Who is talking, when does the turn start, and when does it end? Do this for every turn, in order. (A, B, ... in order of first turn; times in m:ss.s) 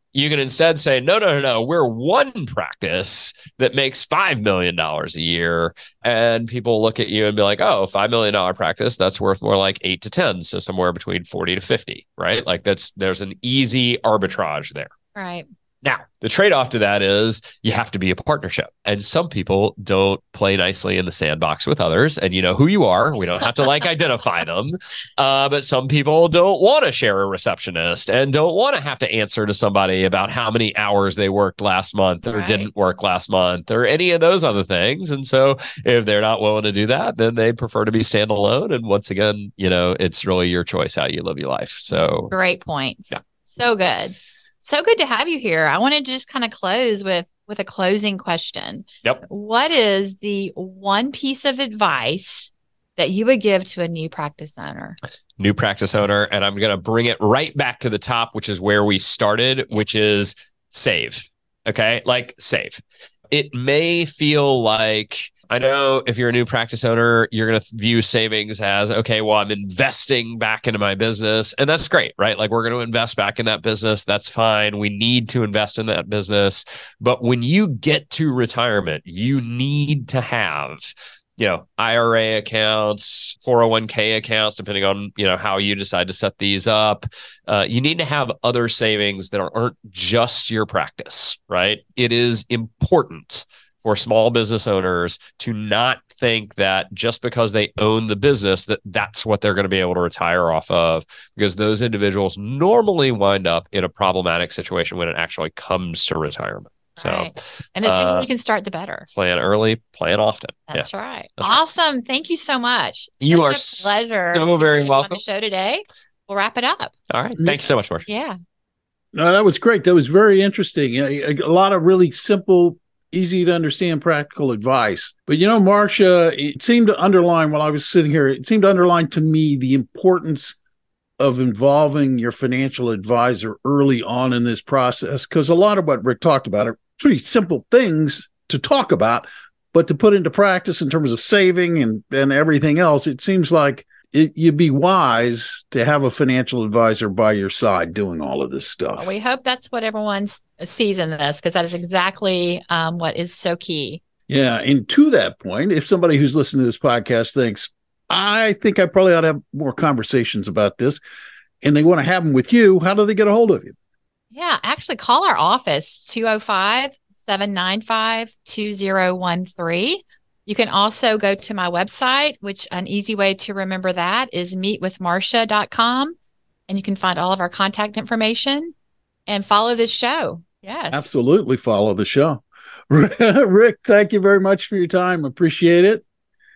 0:00.1-0:14.9 A
0:15.1-0:15.5 B
0:15.8-0:42.3 A
0:32.3-0:32.7 B
0:41.9-0:55.0 B
0:55.4-1:48.3 A
1:47.0-1:49.1 B
1:49.1-1:51.6 A
1:50.7-1:56.9 B
1:53.2-1:55.2 A
1:57.1-1:58.0 A
1:58.0-1:58.4 B
1:59.1-2:10.6 C
2:11.2-2:29.1 C
2:29.0-2:34.0 B
2:34.3-2:41.0 C
2:41.6-2:43.8 C
2:44.3-2:56.1 B
2:56.7-2:58.7 B
2:59.3-3:01.1 B
3:00.9-3:06.0 C